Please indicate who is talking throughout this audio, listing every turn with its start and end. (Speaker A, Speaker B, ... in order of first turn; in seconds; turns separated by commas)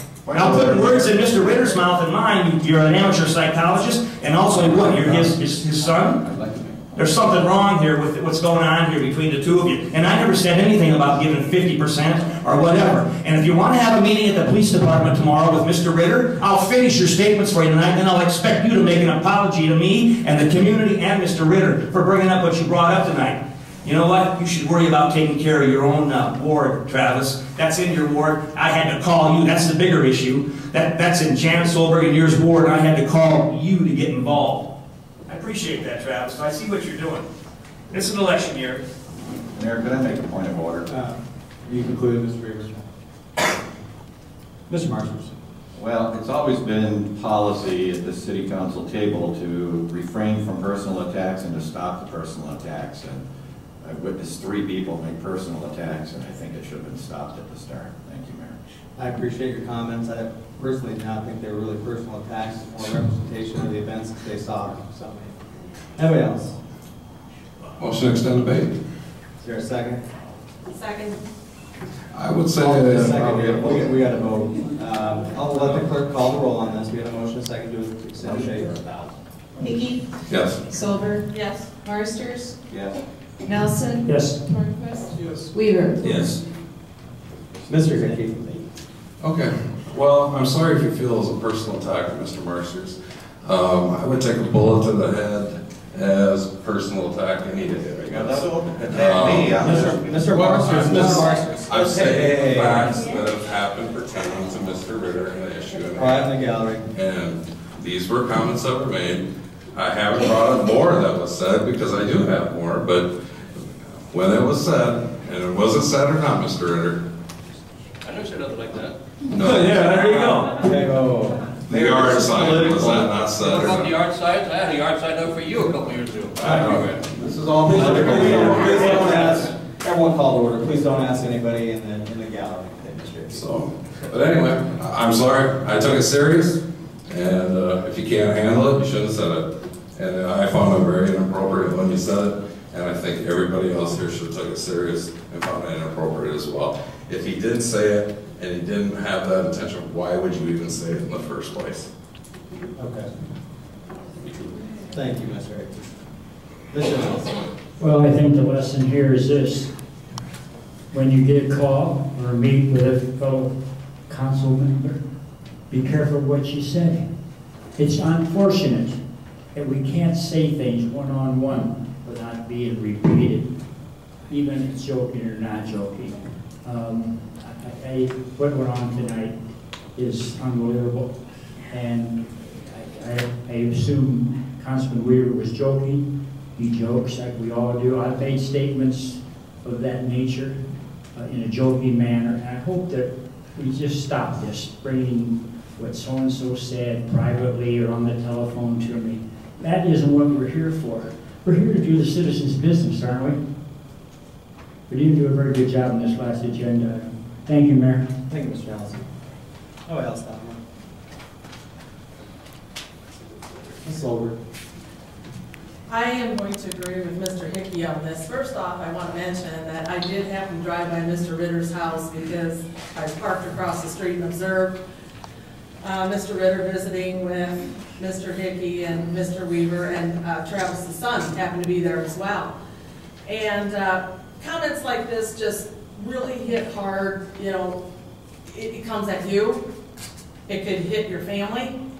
Speaker A: 0.2-1.1, Speaker B: 0.3-6.2, Speaker A: 4.8-5.4, Speaker A: 6.2-6.8, Speaker B: 6.9-34.7, Speaker B: 35.2-37.2, Speaker B: 37.9-38.9, Speaker A: 39.5-40.9, Speaker C: 40.9-42.8, Speaker C: 44.7-45.3, Speaker A: 45.7-53.2, Speaker A: 53.8-58.6, Speaker C: 59.0-65.4, Speaker C: 66.0-66.6, Speaker D: 67.8-68.8, Speaker C: 69.4-70.0, Speaker E: 70.7-71.2, Speaker D: 72.1-73.9, Speaker C: 72.5-78.8, Speaker A: 78.2-79.1, Speaker F: 79.6-80.1, Speaker D: 80.3-80.6, Speaker F: 80.7-82.6, Speaker E: 81.3-81.7, Speaker A: 82.7-82.9, Speaker F: 83.4-86.3, Speaker G: 84.0-84.4, Speaker B: 86.0-86.4, Speaker A: 87.5-88.5, Speaker C: 87.7-88.4, Speaker D: 89.2-98.3, Speaker A: 98.0-101.2, Speaker D: 98.9-106.4, Speaker C: 99.6-103.0, Speaker C: 106.0-106.9, Speaker D: 106.9-117.0, Speaker H: 118.0-119.0, Speaker D: 119.3-119.9, Speaker B: 119.3-120.7, Speaker C: 120.1-122.4, Speaker A: 121.7-122.9, Speaker D: 121.7-124.0, Speaker H: 123.3-126.7, Speaker C: 126.4-126.8, Speaker D: 126.5-127.0, Speaker A: 127.2-129.3, Speaker C: 127.6-133.4, Speaker B: 127.7-129.4, Speaker D: 133.3-151.9, Speaker C: 152.8-153.1, Speaker C: 154.9-155.9, Speaker C: 156.7-157.3, Speaker G: 157.8-159.7, Speaker G: 160.9-165.0, Speaker G: 165.7-167.1, Speaker G: 167.7-169.0, Speaker G: 169.5-173.5, Speaker G: 174.3-179.4, Speaker G: 179.9-190.6, Speaker G: 191.1-203.4, Speaker G: 204.9-208.1, Speaker C: 208.3-209.1, Speaker C: 209.8-210.6, Speaker C: 213.8-214.3, Speaker E: 215.9-224.8, Speaker E: 225.8-232.5, Speaker E: 233.2-237.8, Speaker E: 238.5-239.6, Speaker E: 240.5-241.8